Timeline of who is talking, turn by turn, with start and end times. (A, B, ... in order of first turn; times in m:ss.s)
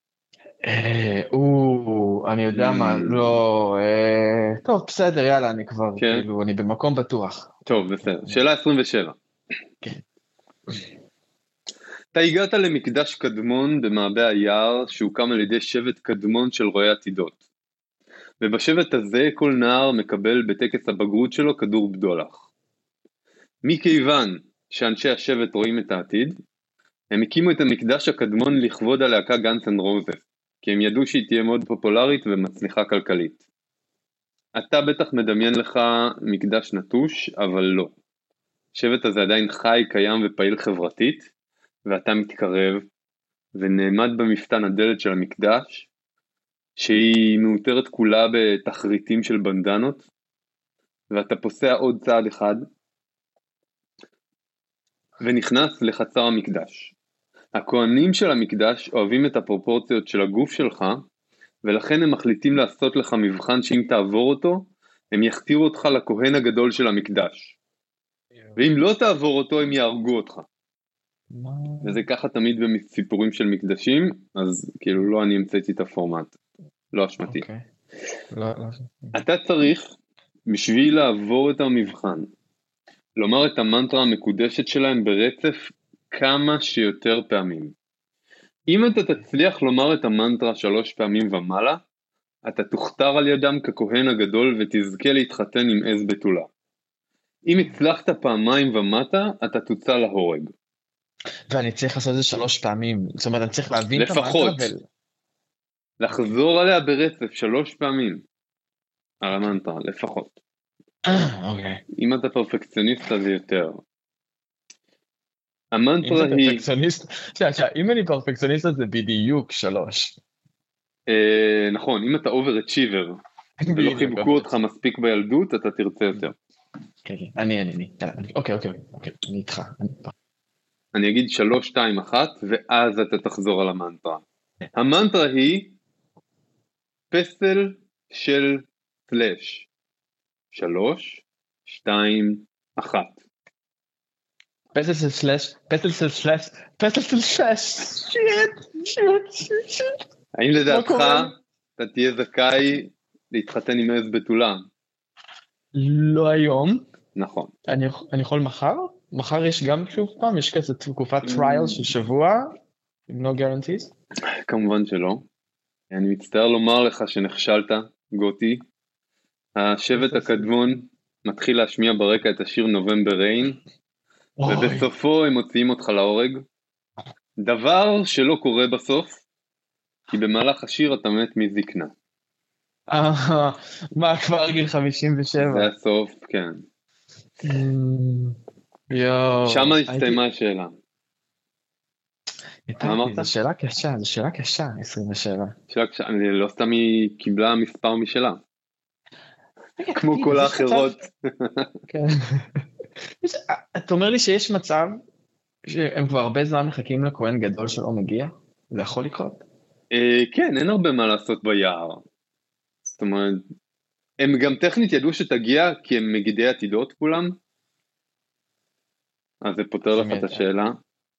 0:00.6-0:08.4 A
0:02.5-0:03.4 B
0:06.0-0:06.2 B
0:07.7-0:09.2 B
0:12.2-0:17.4 B
0:18.4-0:22.4 B
0:23.6-0:26.4 B
0:27.1-0:33.4 B
0:34.6-0:37.9 B
0:38.8-0:41.3 B
0:41.9-0:42.9 B
0:43.6-0:45.9 B
0:46.8-0:50.1 B
0:51.1-0:52.6 B
0:55.2-0:56.9 B
0:57.6-1:01.0 B
1:01.6-1:07.6 B
1:08.6-1:10.5 B
1:11.3-1:12.0 A
1:11.8-1:16.3 B
1:16.9-1:17.4 B
1:17.2-1:17.6 A
1:18.3-1:19.2 A
1:19.1-1:19.9 B
1:20.5-1:22.3 B
1:23.2-1:27.7 B
1:28.7-1:31.8 B
1:32.5-1:36.5 B
1:37.5-1:40.5 B
1:41.5-1:44.8 A
1:44.0-1:44.7 B
1:46.0-1:48.2 B
1:49.2-1:50.4 B
1:51.1-1:51.8 A
1:52.0-1:53.8 B
1:55.7-1:56.6 B
1:56.0-2:00.2 A
2:01.1-2:03.2 B
2:03.6-2:04.5 A
2:03.7-2:06.4 B
2:07.0-2:10.1 A
2:11.0-2:14.2 B
2:14.8-2:15.8 B
2:17.1-2:19.7 B
2:20.5-2:23.2 B
2:24.7-2:30.0 A
2:30.4-2:34.7 B
2:30.7-2:31.4 A
2:35.8-2:36.8 A
2:37.2-2:37.5 B
2:37.7-2:42.5 A
2:41.2-2:41.9 B
2:43.1-2:43.9 A
2:44.4-2:45.3 B
2:45.9-2:48.6 B
2:49.6-2:53.6 B
2:50.0-2:50.5 A
2:54.4-2:54.9 A
2:54.5-2:56.4 B
2:57.4-2:59.2 B
3:00.1-3:01.9 B
3:02.9-3:05.7 A
3:05.4-3:06.6 B
3:07.4-3:08.4 A
3:08.9-3:10.2 A
3:09.5-3:10.7 B
3:12.7-3:15.6 A
3:12.8-3:13.3 B
3:15.7-3:18.4 B
3:19.8-3:21.0 A
3:20.0-3:21.7 B
3:21.9-3:22.4 A
3:23.2-3:25.0 A
3:25.7-3:29.4 A
3:29.9-3:32.0 B
3:33.0-3:33.5 B
3:34.2-3:37.4 B
3:39.4-3:40.8 B
3:39.9-3:40.4 A